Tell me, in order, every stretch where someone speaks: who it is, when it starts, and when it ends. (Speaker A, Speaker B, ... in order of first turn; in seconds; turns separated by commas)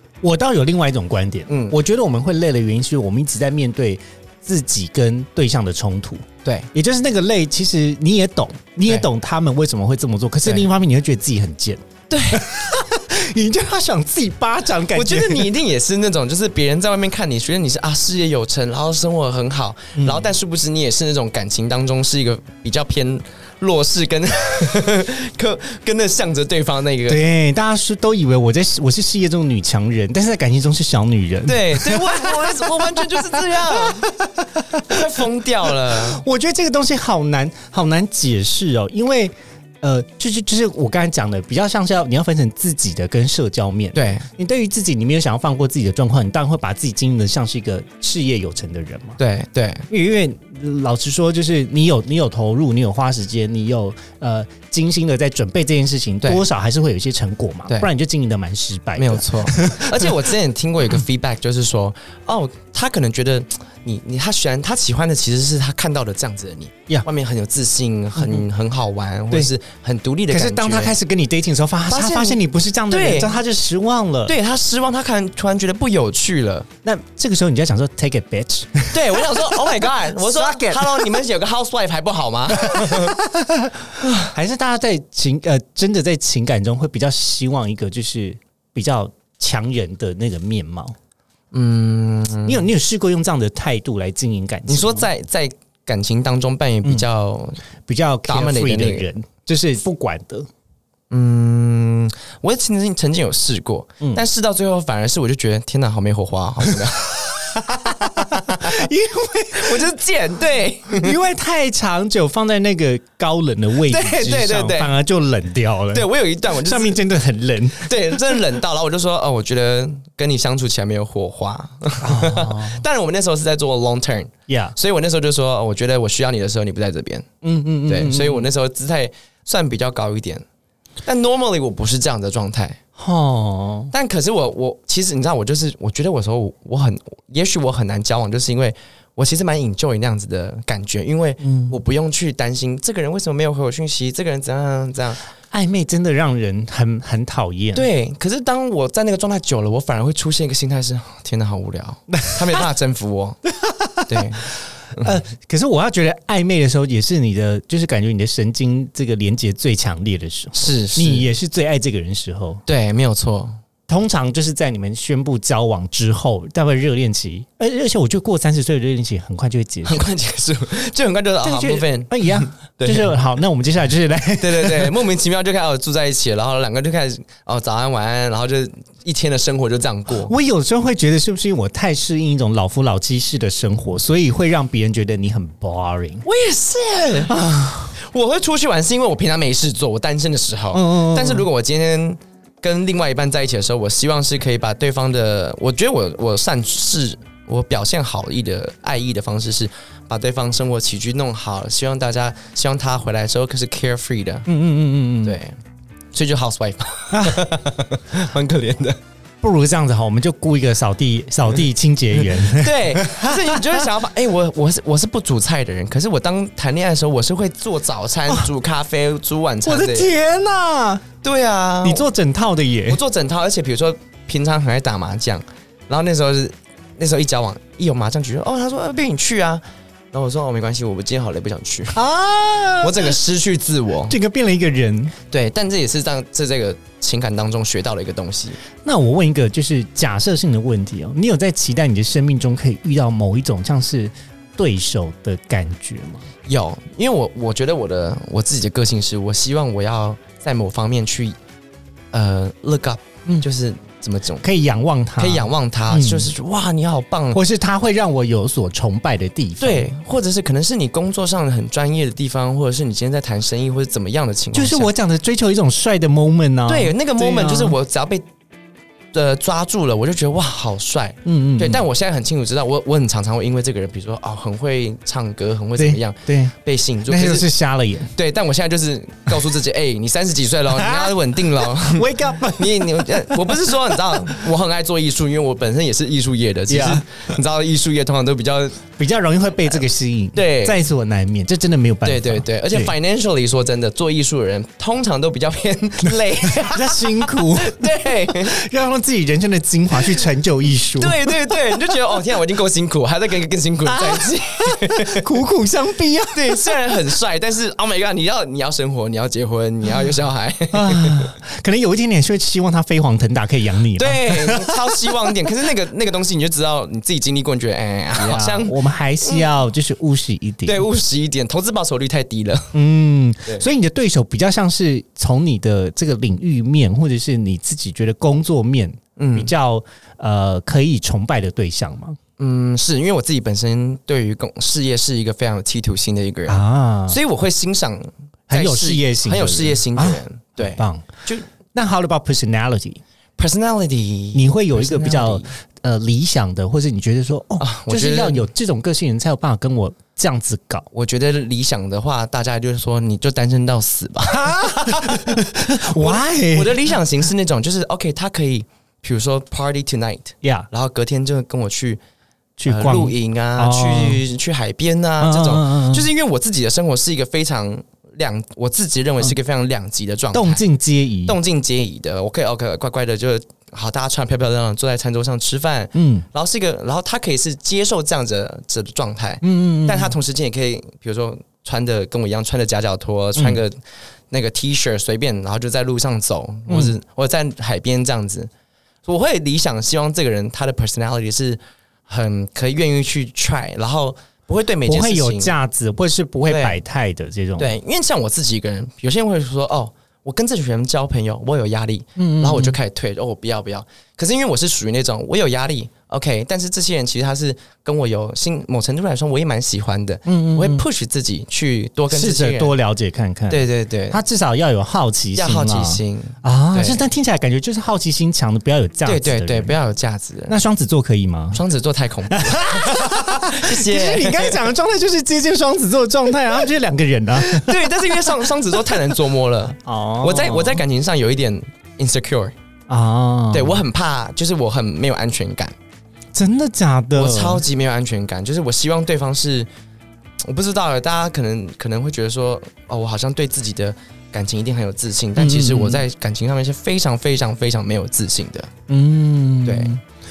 Speaker A: 0.2-15.5, Speaker B: 1.5-1.8, Speaker B: 12.1-12.4, Speaker B: 14.9-27.2, Speaker A: 20.0-20.3, Speaker A: 27.1-35.0, Speaker B: 31.5-34.1, Speaker B: 34.9-36.2, Speaker A: 35.8-49.2, Speaker B: 44.0-44.3, Speaker B: 49.2-49.9, Speaker A: 49.9-60.1, Speaker B: 59.0-71.0, Speaker A: 70.3-74.3, Speaker B: 71.9-72.4, Speaker B: 72.9-73.4, Speaker B: 74.3-76.7, Speaker A: 76.8-79.6, Speaker B: 78.9-83.2, Speaker A: 80.1-81.1, Speaker A: 82.6-91.0, Speaker B: 84.0-84.3, Speaker B: 91.5-92.7, Speaker A: 92.5-95.1, Speaker B: 94.7-97.6, Speaker A: 97.9-100.5, Speaker B: 98.3-99.1, Speaker B: 101.1-108.9, Speaker A: 107.2-109.9, Speaker B: 109.5-111.2, Speaker A: 110.9-116.1, Speaker B: 113.9-114.9, Speaker B: 115.9-117.0, Speaker A: 116.6-118.1, Speaker B: 117.8-127.3, Speaker A: 122.0-122.8, Speaker A: 124.5-124.8, Speaker A: 127.4-128.4, Speaker B: 127.9-130.4, Speaker B: 131.0-132.8, Speaker A: 133.0-133.9, Speaker B: 133.9-145.2, Speaker A: 141.4-141.8, Speaker A: 145.5-147.9, Speaker B: 147.8-153.4, Speaker A: 152.1-152.6, Speaker A: 153.5-162.6, Speaker B: 154.1-155.2, Speaker B: 160.6-161.3, Speaker B: 162.7-163.6, Speaker A: 163.9-170.1, Speaker B: 169.9-173.2, Speaker A: 171.4-174.9, Speaker B: 174.4-180.3, Speaker A: 180.2-186.2, Speaker B: 186.2-187.3, Speaker A: 187.3-188.0, Speaker B: 188.0-204.5, Speaker A: 190.7-191.5, Speaker A: 204.5-205.4, Speaker B: 205.2-205.6, Speaker B: 206.1-209.0, Speaker A: 207.1-207.4, Speaker A: 209.4-213.8, Speaker B: 212.3-220.1, Speaker A: 219.7-221.0, Speaker B: 221.2-222.1, Speaker A: 221.8-223.0, Speaker B: 222.9-232.0, Speaker A: 231.9-233.2, Speaker B: 232.8-234.2, Speaker A: 234.1-235.2, Speaker B: 235.3-238.6, Speaker A: 238.8-246.3, Speaker B: 246.5-251.4, Speaker B: 252.1-254.4, Speaker A: 254.4-256.3, Speaker B: 255.2-257.4, Speaker A: 257.3-259.9, Speaker B: 259.6-264.9, Speaker A: 264.5-267.8, Speaker B: 266.7-268.2, Speaker B: 269.1-277.5, Speaker A: 271.2-271.8, Speaker A: 275.8-276.5, Speaker A: 277.1-278.1, Speaker B: 278.1-288.9, Speaker A: 280.8-284.3, Speaker A: 286.7-287.0, Speaker A: 289.0-292.9, Speaker B: 290.4-290.8, Speaker B: 292.0-298.6, Speaker A: 296.4-301.5, Speaker B: 301.0-305.3, Speaker A: 303.9-306.7, Speaker B: 306.3-311.3, Speaker A: 310.7-315.3, Speaker B: 314.0-319.5, Speaker A: 318.1-320.8, Speaker B: 320.6-322.7, Speaker A: 322.7-332.2, Speaker B: 329.2-329.5, Speaker B: 332.4-341.5, Speaker A: 336.5-337.2, Speaker A: 338.5-341.1, Speaker A: 341.7-343.0, Speaker B: 343.4-345.5, Speaker A: 344.3-350.9, Speaker B: 347.6-348.5, Speaker B: 350.9-362.0, Speaker A: 354.3-356.8, Speaker A: 360.4-360.7, Speaker A: 362.6-364.2, Speaker B: 362.7-370.6, Speaker A: 365.2-366.1, Speaker A: 370.3-371.4, Speaker B: 371.3-388.5, Speaker A: 375.9-376.3, Speaker A: 379.4-380.2, Speaker A: 386.7-386.9, Speaker B: 389.1-395.5, Speaker A: 394.9-397.7, Speaker B: 396.5-396.8, Speaker B: 397.6-412.8, Speaker A: 402.2-402.8, Speaker A: 410.3-410.8, Speaker A: 412.1-419.8, Speaker B: 413.5-414.2, Speaker B: 415.4-417.0, Speaker B: 419.1-420.6, Speaker A: 420.5-421.6, Speaker B: 421.5-424.6, Speaker A: 422.3-429.1, Speaker B: 427.4-432.5, Speaker A: 429.8-430.8, Speaker A: 432.9-433.8, Speaker B: 433.5-435.8, Speaker A: 436.3-437.6, Speaker B: 437.1-439.7, Speaker B: 440.4-448.7, Speaker A: 445.4-446.0, Speaker A: 448.9-450.0, Speaker B: 449.6-449.9